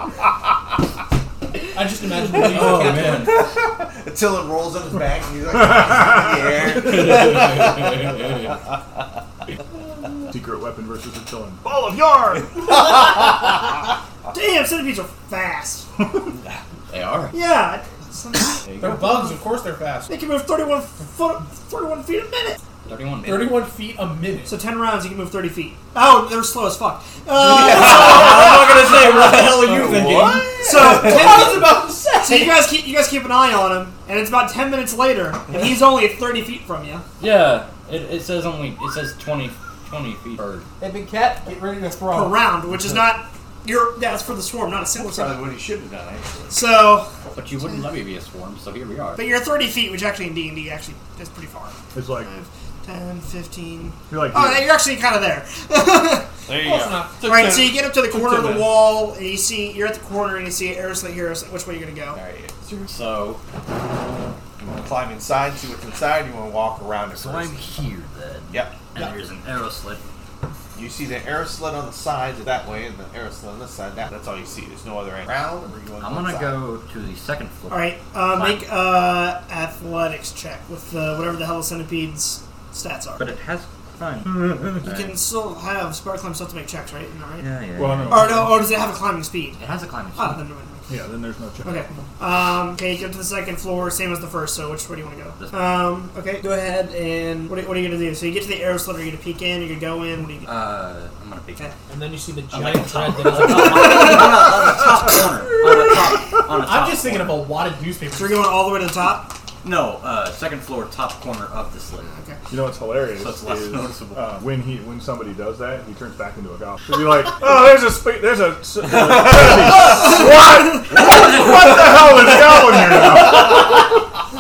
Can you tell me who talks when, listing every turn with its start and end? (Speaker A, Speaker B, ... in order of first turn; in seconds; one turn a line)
Speaker A: 1.7-3.4
Speaker B: 2.2-3.4
Speaker C: 2.6-8.4
Speaker D: 5.8-6.3
Speaker B: 6.7-8.5
Speaker D: 10.3-12.7
Speaker E: 14.3-15.9
Speaker B: 16.9-17.4
Speaker E: 17.3-18.6
Speaker B: 18.6-19.2
Speaker A: 18.8-20.1
Speaker E: 20.1-22.6
Speaker B: 22.8-23.6
Speaker A: 23.2-24.5
Speaker E: 24.5-28.7
Speaker C: 27.4-31.5
Speaker B: 27.9-30.4
Speaker E: 30.6-37.0
Speaker A: 30.6-32.6
Speaker B: 37.2-40.7
Speaker A: 40.8-42.4
Speaker E: 42.1-45.4
Speaker C: 45.0-46.5
Speaker E: 46.5-47.1
Speaker B: 47.3-49.2
Speaker E: 49.2-56.3
Speaker D: 51.9-52.3
Speaker D: 54.1-54.7
Speaker C: 56.5-58.7
Speaker A: 56.5-57.2
Speaker E: 57.2-62.2
Speaker C: 62.1-62.9
Speaker B: 62.9-63.4
Speaker C: 64.6-67.7
Speaker B: 67.1-70.0
Speaker C: 68.5-68.8
Speaker C: 70.7-76.6
Speaker B: 76.0-77.9
Speaker E: 77.7-83.2
Speaker B: 83.2-85.2
Speaker E: 84.8-87.5
Speaker B: 87.4-88.5
Speaker D: 87.8-88.6
Speaker E: 88.1-89.6
Speaker B: 89.6-90.4
Speaker E: 90.1-90.9
Speaker D: 90.9-91.9
Speaker E: 91.6-100.5
Speaker B: 100.4-101.8
Speaker A: 101.9-104.4
Speaker B: 102.5-107.5
Speaker E: 103.4-104.5
Speaker A: 106.5-108.5
Speaker E: 108.1-109.3
Speaker B: 109.6-112.1
Speaker E: 112.0-112.4
Speaker D: 112.5-123.7
Speaker B: 113.2-114.3
Speaker C: 119.3-120.0